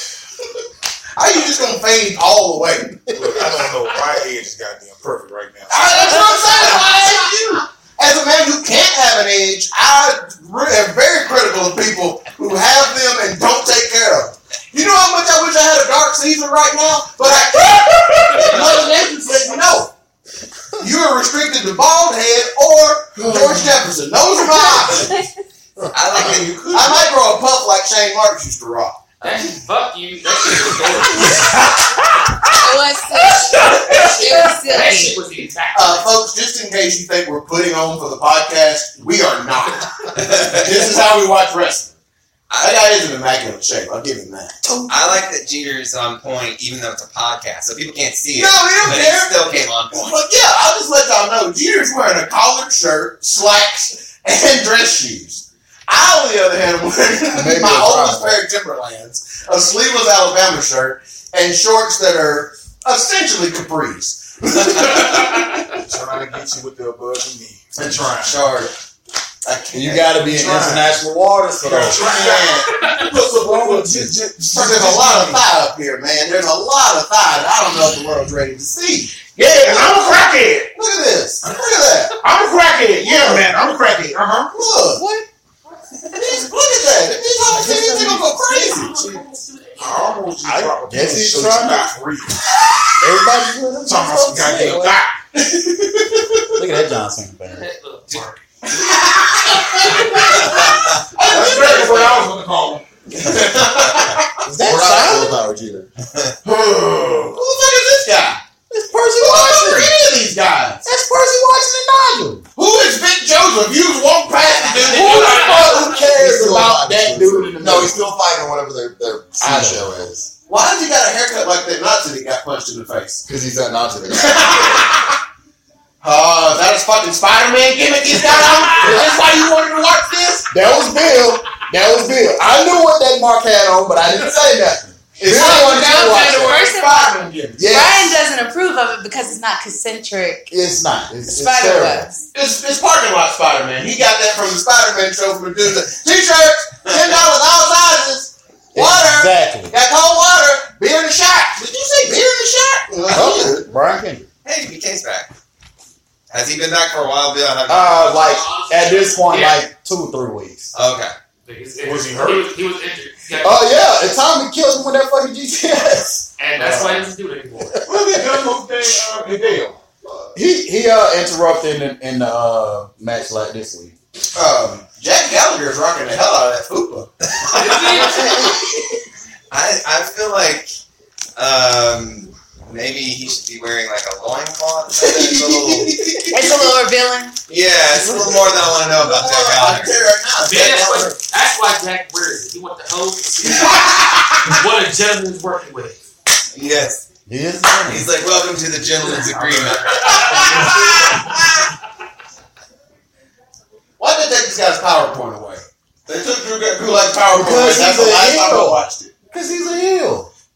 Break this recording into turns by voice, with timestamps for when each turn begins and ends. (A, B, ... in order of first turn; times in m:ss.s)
0:01.2-0:03.0 A
0:03.1-0:06.7 B
0:05.7-0:19.9 A
0:20.8-0:25.2 A
0:24.5-0:25.3 C
0:25.9-0:27.1 D
0:26.1-0:29.1 A
0:29.2-0:31.6 E
0:30.9-0:31.5 A
0:32.5-0:35.2 C
0:33.4-0:36.1 E
0:33.6-0:34.5 A
0:35.7-0:41.9 A
0:40.2-0:40.6 D
0:42.5-0:42.8 D
0:42.6-0:44.5 A
0:44.6-0:44.9 C
0:44.9-0:50.2 D
0:48.3-1:05.6 A
0:57.3-0:58.4 F
1:05.8-1:08.5 B
1:07.7-1:08.7 A
1:09.4-1:10.9 A
1:09.7-1:12.0 F
1:11.6-1:15.5 B
1:11.8-1:12.7 A
1:12.0-1:13.1 E
1:13.3-1:22.2 A
1:19.4-1:20.7 B
1:22.2-1:24.5 B
1:23.0-1:25.0 A
1:24.9-1:25.3 F
1:26.1-1:29.2 A
1:27.5-1:28.4 F
1:28.3-1:30.2 E
1:29.8-1:32.4 B
1:30.4-1:31.9 F
1:33.0-1:35.0 F
1:33.8-1:35.1 B
1:36.5-1:37.7 F
1:37.5-1:38.4 E
1:39.1-1:40.5 A
1:41.2-1:42.2 A
1:41.2-1:42.9 B
1:43.1-1:44.2 A
1:44.4-1:45.4 F
1:44.5-1:45.9 G
1:46.4-1:47.4 B
1:47.3-1:48.4 A
1:48.7-1:49.9 F
1:49.2-1:50.8 A
1:50.8-1:52.4 F
1:52.6-1:55.8 A
1:54.9-1:58.1 F
1:55.0-1:55.7 E
1:55.3-2:00.3 G
1:59.4-1:59.8 F
2:00.5-2:03.2 A
2:03.2-2:04.8 G
2:04.2-2:05.2 A
2:06.0-2:10.5 A
2:08.8-2:09.1 G
2:10.5-2:16.6 F
2:15.2-2:17.6 A
2:15.3-2:20.4 C
2:17.6-2:18.2 F
2:20.5-2:22.0 F
2:21.3-2:22.2 C
2:22.3-2:33.6 A
2:28.7-2:29.7 F
2:33.1-2:34.3 F
2:34.4-2:35.3 D
2:36.3-2:39.1 D
2:37.7-2:40.7 F
2:39.2-2:39.6 E
2:40.7-2:41.1 D
2:41.4-2:43.8 E
2:41.8-2:42.5 B
2:43.4-2:46.3 F
2:46.4-2:47.8 E
2:46.6-2:47.1 B
2:47.7-2:48.6 F
2:47.8-2:49.8 B
2:50.3-2:53.9 F
2:54.3-2:57.1 A
2:57.4-2:58.3 D
2:57.6-2:58.4 E
2:57.7-2:58.2 A
2:59.5-3:00.7 D
3:01.4-3:06.0 D
3:05.0-3:06.7 A
3:06.3-3:07.3 C
3:07.5-3:09.9 D
3:08.8-3:11.2 A
3:10.4-3:16.0 E
3:13.5-3:14.2 A
3:16.5-3:17.0 D
3:17.2-3:18.1 F
3:17.9-3:20.7 D
3:19.1-3:20.9 E
3:20.1-3:21.2 A
3:24.0-3:29.1 A
3:27.3-3:30.3 F